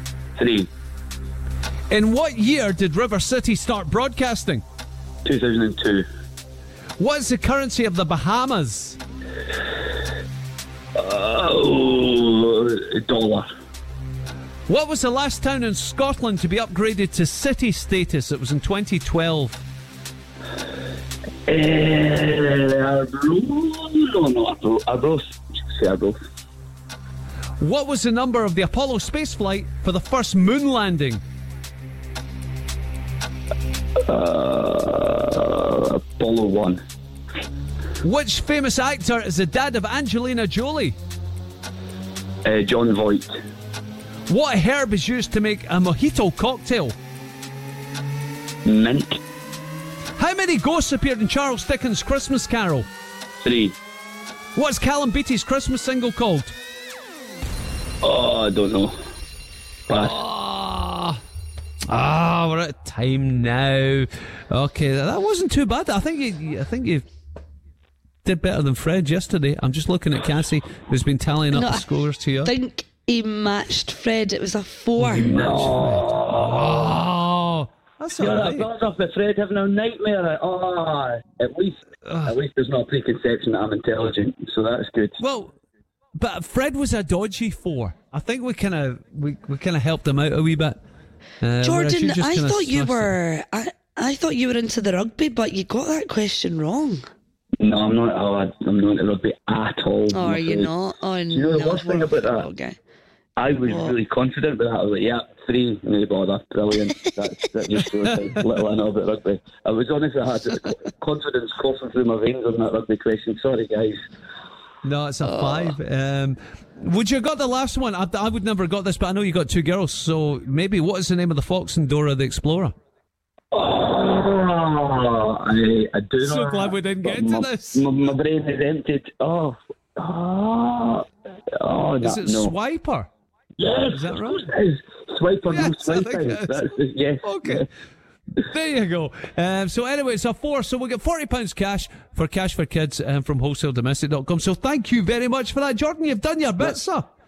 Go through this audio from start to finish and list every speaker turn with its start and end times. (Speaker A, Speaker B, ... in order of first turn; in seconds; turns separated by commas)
Speaker A: 0.4-0.7, Speaker B: 1.9-4.6, Speaker A: 5.2-6.0, Speaker B: 7.0-9.0, Speaker A: 11.0-13.5, Speaker B: 14.7-19.6, Speaker A: 21.5-26.2, Speaker B: 27.6-31.2, Speaker A: 34.0-36.8, Speaker B: 38.0-41.0, Speaker A: 42.5-43.3, Speaker B: 44.3-47.0, Speaker A: 48.6-49.2, Speaker B: 50.2-52.9, Speaker A: 53.4-53.8, Speaker B: 54.5-56.5, Speaker A: 58.0-59.0, Speaker A: 59.9-60.2, Speaker B: 60.0-61.2, Speaker B: 61.9-67.0, Speaker B: 68.2-72.5, Speaker C: 71.5-71.8, Speaker C: 72.4-75.3, Speaker B: 75.0-78.7, Speaker A: 75.2-76.9, Speaker A: 78.2-85.2, Speaker B: 82.1-82.3, Speaker B: 85.2-85.5, Speaker B: 86.2-90.8, Speaker B: 91.4-93.2, Speaker C: 91.6-97.0, Speaker A: 97.6-100.7, Speaker C: 100.1-102.8, Speaker A: 101.3-102.5, Speaker A: 103.4-114.0, Speaker C: 103.7-104.0, Speaker B: 114.8-122.7, Speaker A: 123.5-131.1, Speaker B: 126.2-127.9, Speaker A: 131.6-132.5, Speaker B: 132.0-133.1, Speaker A: 133.6-137.7, Speaker B: 133.9-134.4, Speaker B: 135.5-136.6, Speaker B: 137.2-137.7, Speaker B: 138.4-147.1